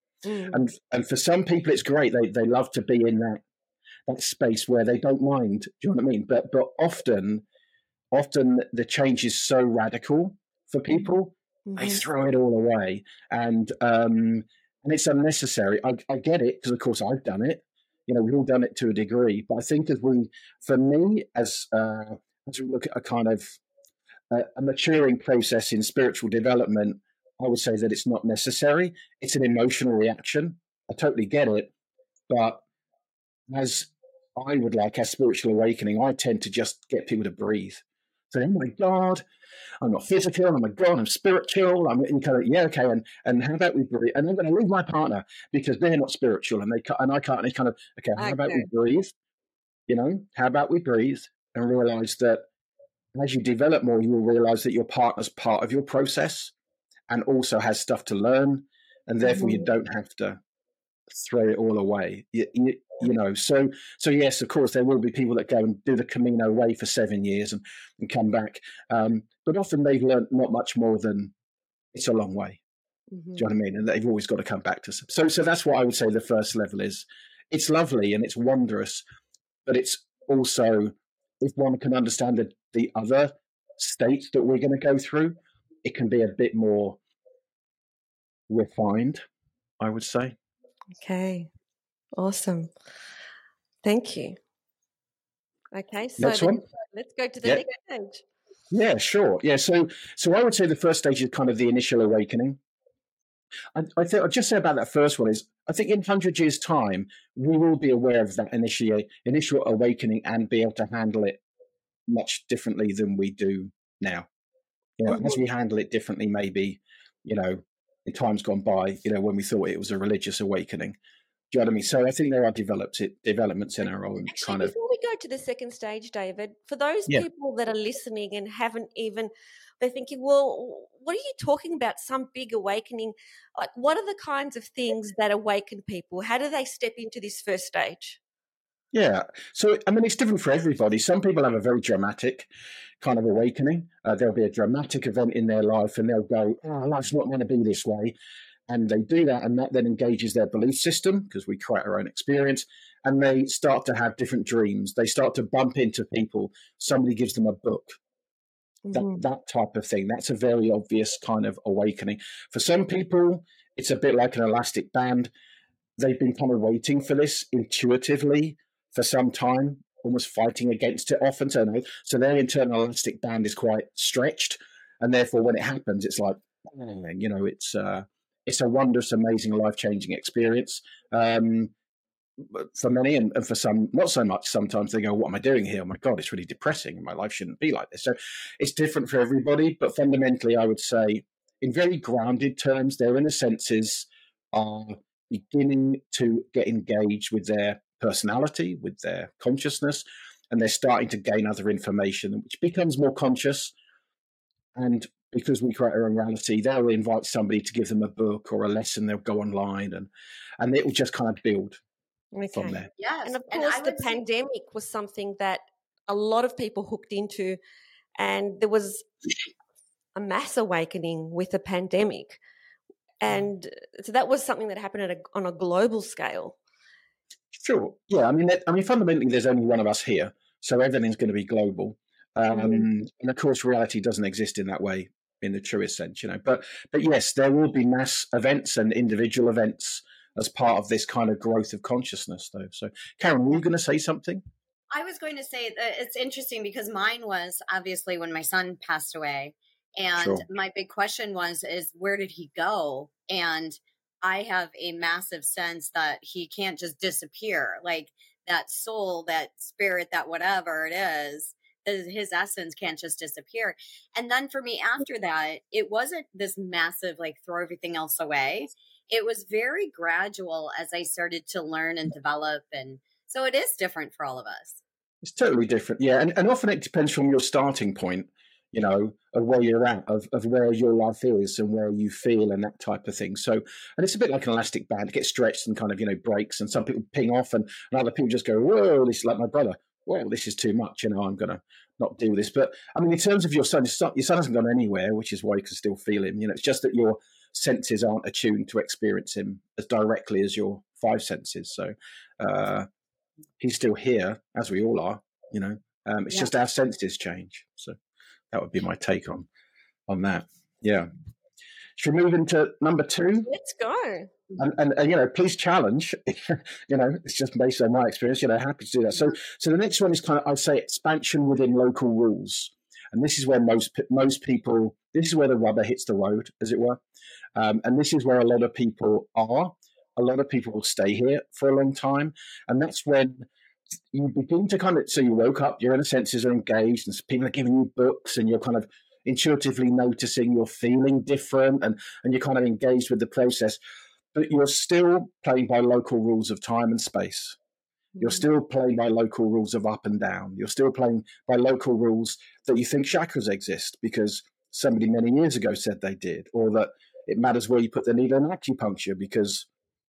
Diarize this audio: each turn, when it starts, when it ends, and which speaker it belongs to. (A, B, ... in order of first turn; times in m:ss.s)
0:00.2-0:00.6 A
0:00.5-0:03.4 B
0:04.1-0:07.4 B
0:08.1-0:23.6 B
0:11.7-0:12.0 A
0:24.3-0:31.7 B
0:32.3-0:32.6 B
0:33.5-0:39.2 B
0:39.8-0:49.1 B
0:48.2-0:48.7 A
0:49.9-0:52.4 B
0:53.2-0:56.5 B
0:57.1-1:00.4 B
0:59.2-0:59.7 A
1:01.1-1:11.3 B
1:11.9-1:12.6 B
1:13.1-1:13.5 A
1:13.4-1:19.0 B
1:19.6-1:27.0 B
1:28.5-1:29.2 B
1:29.8-1:30.4 B
1:31.0-1:31.5 A
1:32.2-1:32.7 A
1:33.8-1:34.4 A
1:35.7-1:38.2 A
1:36.2-1:36.6 B
1:38.7-1:42.6 B
1:43.8-1:51.4 B
1:52.1-1:54.3 B
1:55.0-2:01.0 B
1:55.1-1:55.4 A
2:01.5-2:04.7 B
2:04.3-2:18.2 A
2:18.9-2:22.5 B
2:23.0-2:28.2 B
2:28.7-2:38.0 B
2:38.9-2:39.2 A
2:38.9-2:45.3 B
2:46.0-3:01.7 B
3:02.5-3:23.7 B
3:24.8-3:30.1 B
3:30.6-3:31.8 B
3:32.3-3:37.6 A
3:32.5-3:32.9 B
3:33.0-3:34.2 C
3:38.2-3:39.1 A
3:40.2-3:42.4 A
3:43.2-3:46.6 A
3:47.6-4:04.4 B
3:52.5-3:52.9 A
4:04.9-4:34.8 C
4:10.2-4:10.4 B
4:35.2-5:02.9 B
5:03.6-5:08.0 B
5:08.5-5:09.5 B
5:10.1-5:11.1 B
5:12.0-5:13.5 B
5:13.5-5:14.3 A
5:14.6-5:27.0 B
5:27.6-5:33.5 B
5:34.1-5:43.8 B
5:44.3-5:47.6 B
5:48.2-5:48.4 A
5:48.2-5:59.7 B